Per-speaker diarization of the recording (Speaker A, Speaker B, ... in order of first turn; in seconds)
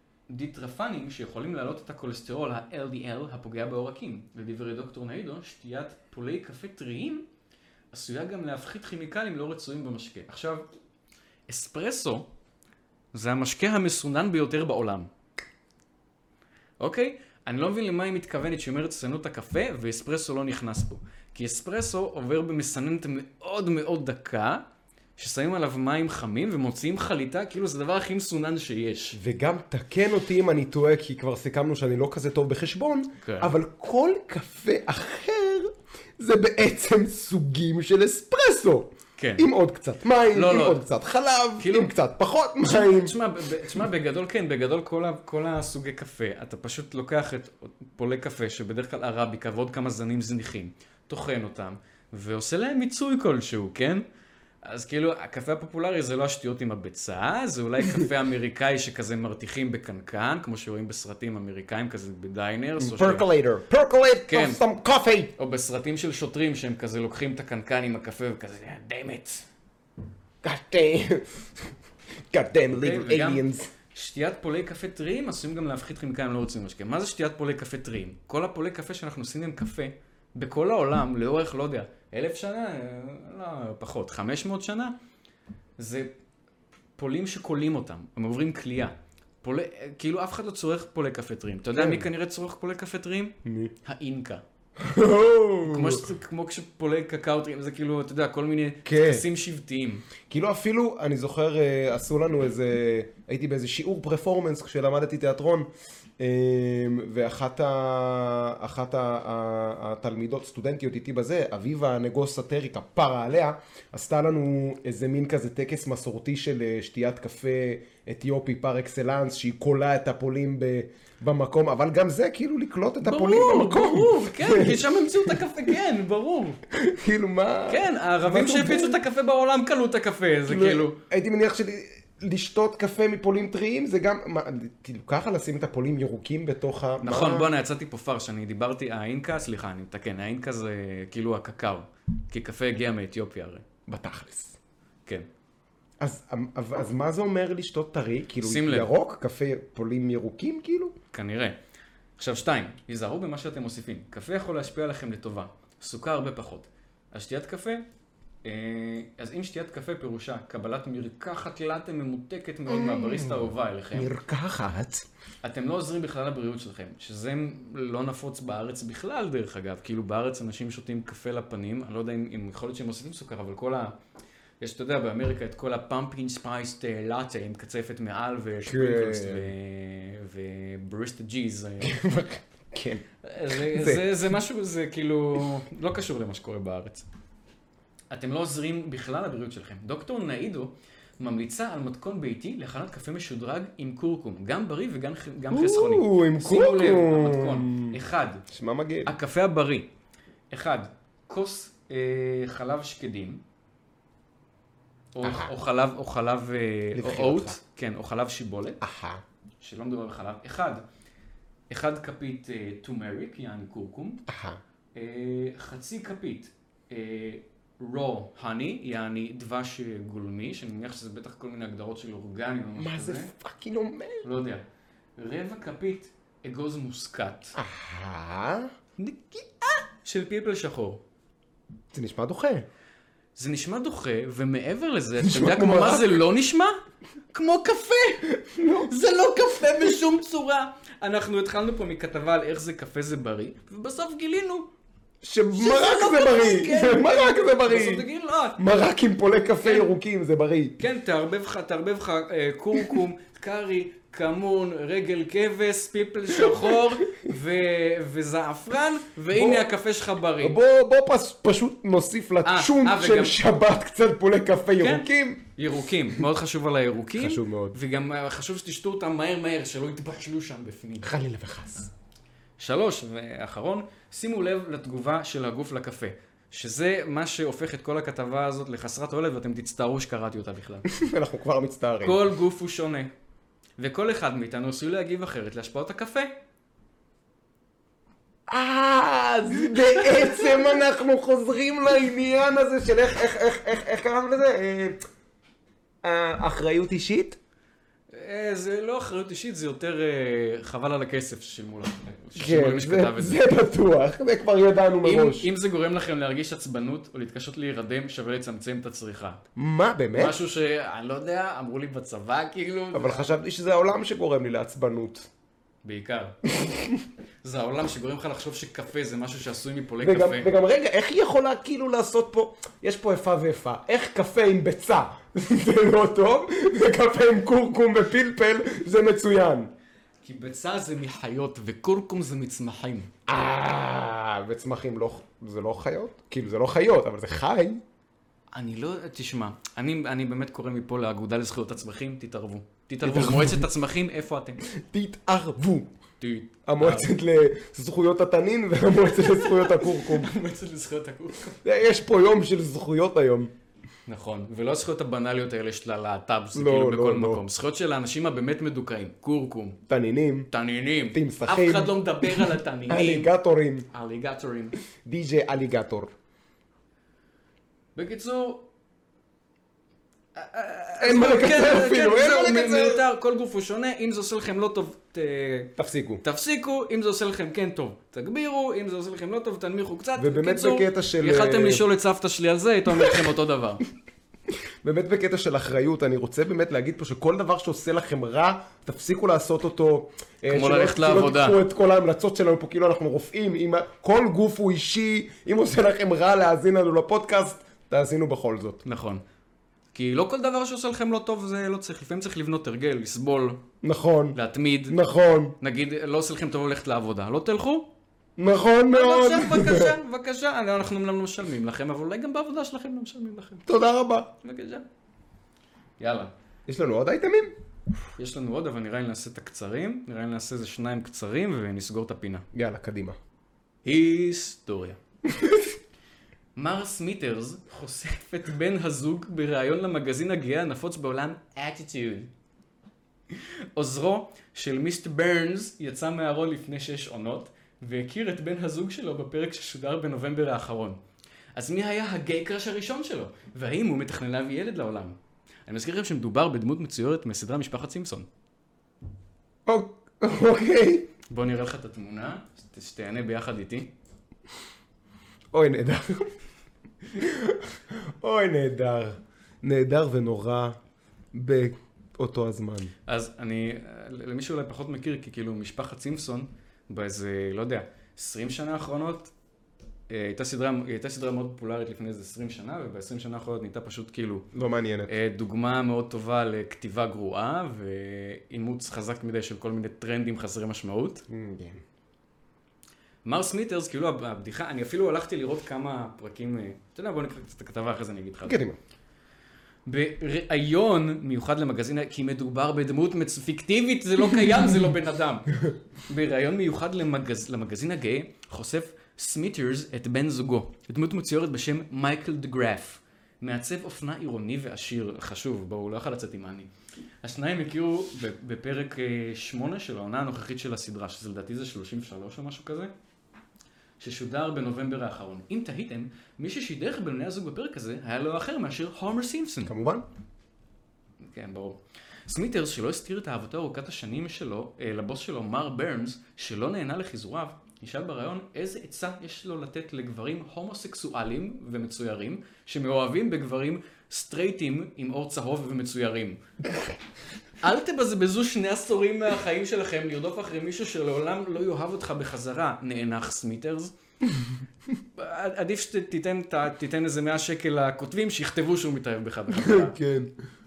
Speaker A: 0.3-7.2, 7.9-10.7, 11.5-12.3, 13.1-15.1, 16.8-24.6, 25.2-29.2, 33.2-33.5, 39.2-39.5, 40.3-40.8, 41.6-41.9, 42.6-54.0, 54.6-63.3, 64.3-64.6, 65.4-69.5, 72.7-85.0, 85.8-86.1, 87.0-94.4, 95.7-100.1, 123.0-126.6, 127.7-131.0, 137.0-143.7, 148.4-148.9, 151.1-151.6, 152.2-157.8, 158.4-164.2, 165.4-173.9, 174.6-182.0, 183.2-187.1, 188.1-198.4, 199.1-199.9, 200.5-203.4, 205.1-208.8, 209.6-210.8, 211.7-214.2, 214.9-223.3, 224.2-224.6, 225.2-227.6, 229.0-231.0, 233.4-236.8, 237.3-244.7, 245.5-248.6, 249.6-249.9, 250.8-260.6, 262.4-263.4, 264.8-271.1, 272.6-280.9, 282.0-283.1, 283.8-286.3, 289.7-290.7, 298.1-303.4, 305.0-309.4, 310.1-313.4, 315.8-316.4, 317.4-320.5, 330.2-333.1, 338.5-344.6, 346.2-347.1, 349.2-351.6, 354.1-359.8, 360.5-363.3, 363.9-364.8, 368.0-368.7, 370.4-383.8, 390.5-391.6, 398.8-399.2, 399.9-403.6, 404.3-405.0, 405.6-407.9, 408.9-413.7, 414.4-414.9, 416.0-416.3, 418.2-422.5, 423.9-425.0, 426.6-432.3, 433.3-441.0, 441.6-448.3, 451.3-453.9, 463.1-469.3, 470.1-474.5, 475.1-481.2, 483.2-488.6, 489.9-506.7, 507.2-512.9, 514.0-519.7, 521.2-536.4, 537.6-543.9, 545.1-550.0
Speaker B: 29.1-43.2, 62.8-65.3, 70.4-71.7, 72.3-73.7, 91.8-92.1, 93.5-93.7, 94.8-96.1, 98.8-99.2, 100.3-105.7, 106.2-125.7, 126.7-129.0, 130.5-137.5, 143.9-144.6, 146.0-151.0, 162.7-165.1, 178.6-179.5, 181.8-184.2, 195.5-199.1, 205.2-205.5, 206.9-207.6, 208.8-209.2, 214.3-214.6, 222.8-224.3, 227.6-228.7, 231.9-232.7, 235.2-236.2, 238.4-238.9, 245.2-248.1, 248.6-250.8, 256.3-257.1, 259.3-259.7, 260.4-265.4, 267.2-267.8, 271.0-271.9, 280.9-282.2, 288.5-295.0, 296.0-297.4, 302.4-305.5, 309.6-310.4, 312.9-315.3, 316.5-317.1, 320.0-329.7, 333.3-337.8, 343.0-343.7, 344.7-345.9, 346.7-350.3, 351.6-353.5, 356.6-357.4, 359.9-360.5, 361.1-363.9, 365.0-366.1, 371.0-373.0, 375.8-376.2, 380.2-381.8, 382.9-383.3, 384.8-398.8, 403.8-405.6, 408.4-409.9, 413.7-414.3, 416.7-417.5, 422.5-423.2, 425.3-425.7, 449.7-451.1, 455.5-456.3, 457.1-460.8, 461.3-462.9, 474.5-475.1, 481.3-481.8, 488.4-488.8, 519.7-520.0, 549.5-550.3